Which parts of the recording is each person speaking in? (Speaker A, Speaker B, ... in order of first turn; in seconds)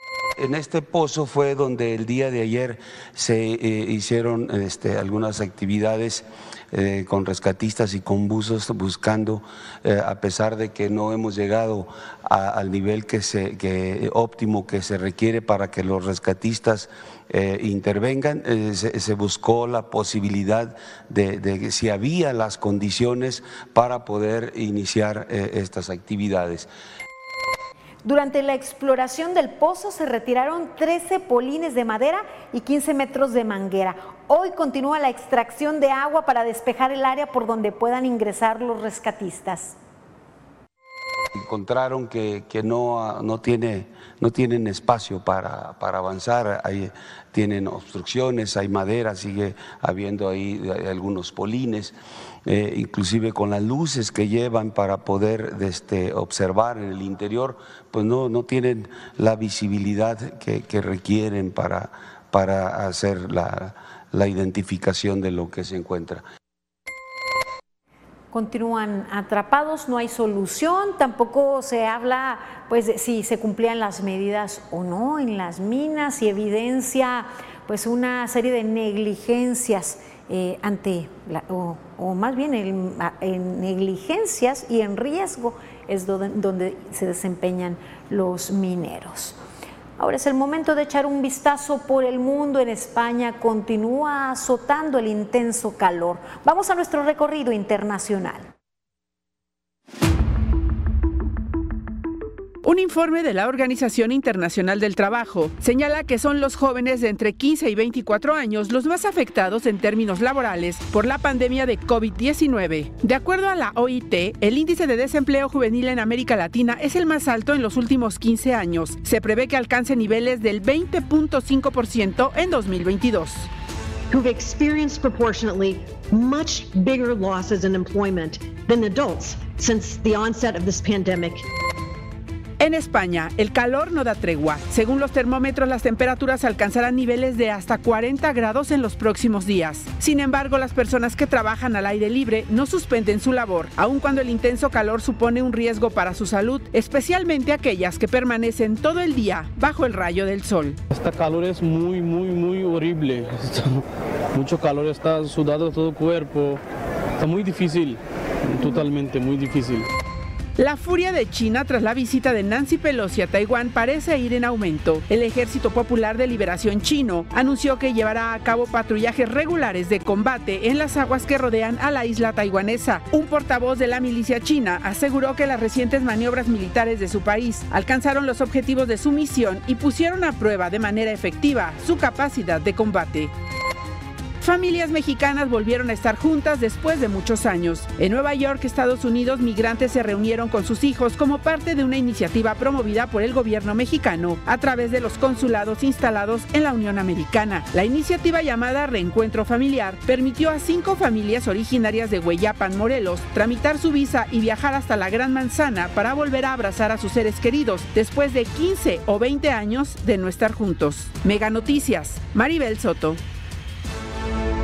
Speaker A: 0.4-26.7, 41.4-52.0, 52.5-66.2
Speaker B: 28.1-39.8, 68.3-89.4, 90.0-98.5
Speaker C: 102.6-123.5, 132.6-150.8, 160.6-183.3, 184.4-213.2
Speaker D: 124.1-131.4
Speaker E: 150.9-156.6, 157.2-159.9